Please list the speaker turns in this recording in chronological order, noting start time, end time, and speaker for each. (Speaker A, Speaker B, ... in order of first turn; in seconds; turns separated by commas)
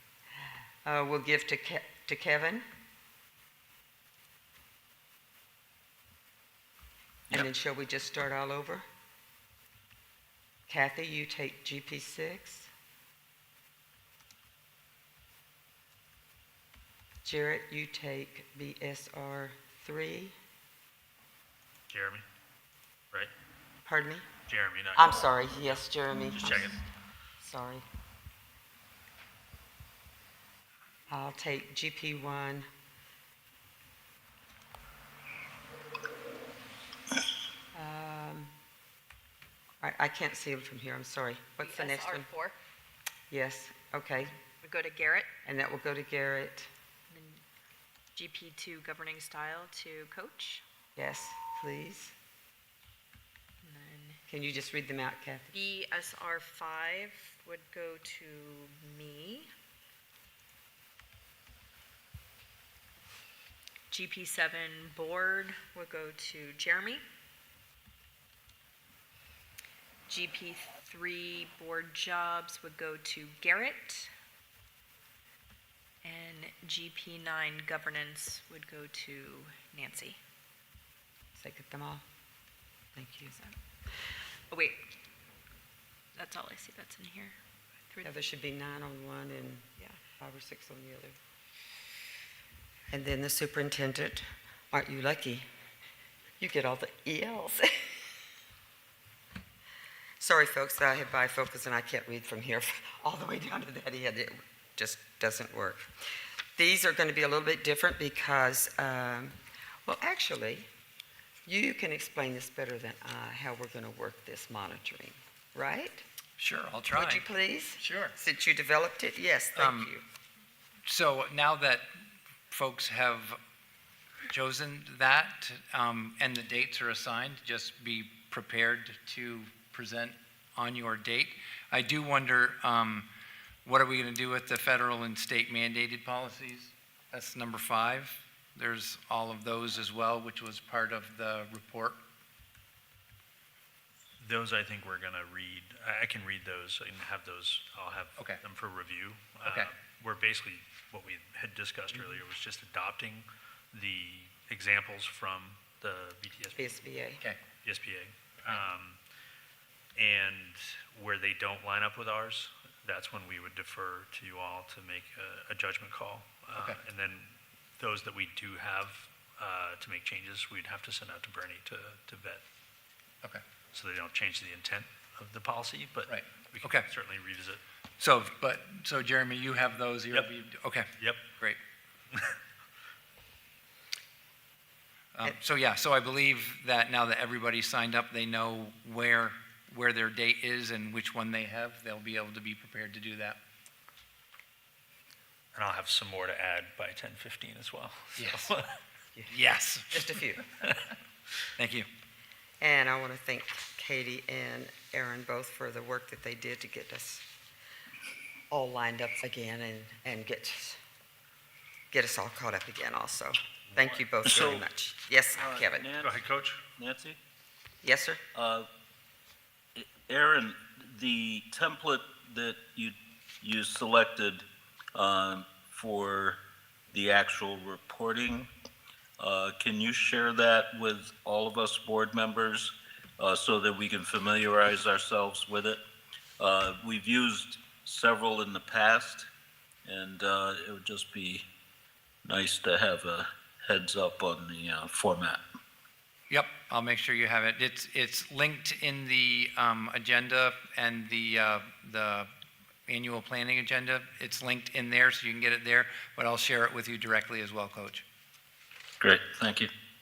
Speaker A: 0.4-2.6, Speaker A: 7.3-8.8, Speaker A: 10.7-12.7, Speaker A: 17.2-20.3, Speaker B: 21.9-22.2, Speaker A: 23.8-24.3, Speaker B: 24.5-26.8, Speaker A: 24.9-26.8, Speaker A: 27.4-27.8, Speaker A: 31.1-32.6, Speaker A: 37.7-38.5, Speaker A: 39.8-42.3, Speaker C: 41.6-42.5, Speaker A: 43.3-44.3, Speaker C: 44.6-45.3, Speaker A: 45.4-46.7, Speaker C: 47.1-47.4, Speaker C: 48.1-50.6, Speaker A: 51.0-52.1, Speaker C: 53.6-54.2, Speaker A: 54.3-55.5, Speaker C: 55.5-59.5, Speaker C: 63.9-67.0, Speaker C: 70.1-74.1, Speaker C: 76.0-80.2, Speaker A: 81.3-82.0, Speaker A: 83.0-83.3, Speaker C: 84.5-84.8, Speaker C: 86.2-87.3, Speaker A: 88.0-91.2, Speaker A: 92.9-95.5, Speaker A: 96.4-97.7, Speaker A: 100.2-105.9, Speaker A: 106.5-110.7, Speaker A: 111.5-116.0, Speaker D: 116.4-117.2, Speaker A: 116.9-120.0, Speaker D: 117.8-118.1, Speaker D: 119.5-119.9, Speaker D: 120.9-121.8, Speaker D: 122.5-123.4, Speaker D: 124.3-133.1, Speaker D: 133.6-142.0, Speaker B: 144.2-156.8, Speaker D: 148.2-148.4, Speaker D: 149.4-149.7, Speaker A: 156.5-157.2, Speaker B: 157.6-159.0, Speaker B: 159.9-172.4, Speaker D: 166.5-166.8, Speaker B: 173.7-177.6, Speaker D: 176.1-176.9, Speaker D: 178.0-180.9, Speaker B: 181.0-181.2, Speaker D: 185.1-193.4, Speaker B: 195.5-198.7, Speaker D: 198.2-198.5, Speaker D: 199.3-199.9, Speaker A: 199.9-200.4, Speaker B: 200.6-200.9, Speaker D: 201.6-201.9, Speaker A: 202.6-207.2, Speaker A: 208.5-210.8, Speaker A: 211.9-215.9, Speaker E: 214.3-214.7, Speaker E: 215.3-216.2, Speaker B: 216.0-216.7, Speaker E: 216.8-217.2, Speaker A: 217.8-218.2, Speaker E: 218.3-218.7, Speaker E: 219.8-224.4, Speaker E: 225.0-226.3, Speaker E: 226.9-228.4, Speaker E: 229.2-235.8, Speaker E: 236.4-239.3, Speaker E: 239.8-241.4, Speaker E: 242.2-245.4, Speaker D: 246.3-252.3, Speaker D: 252.9-258.0, Speaker E: 259.0-259.7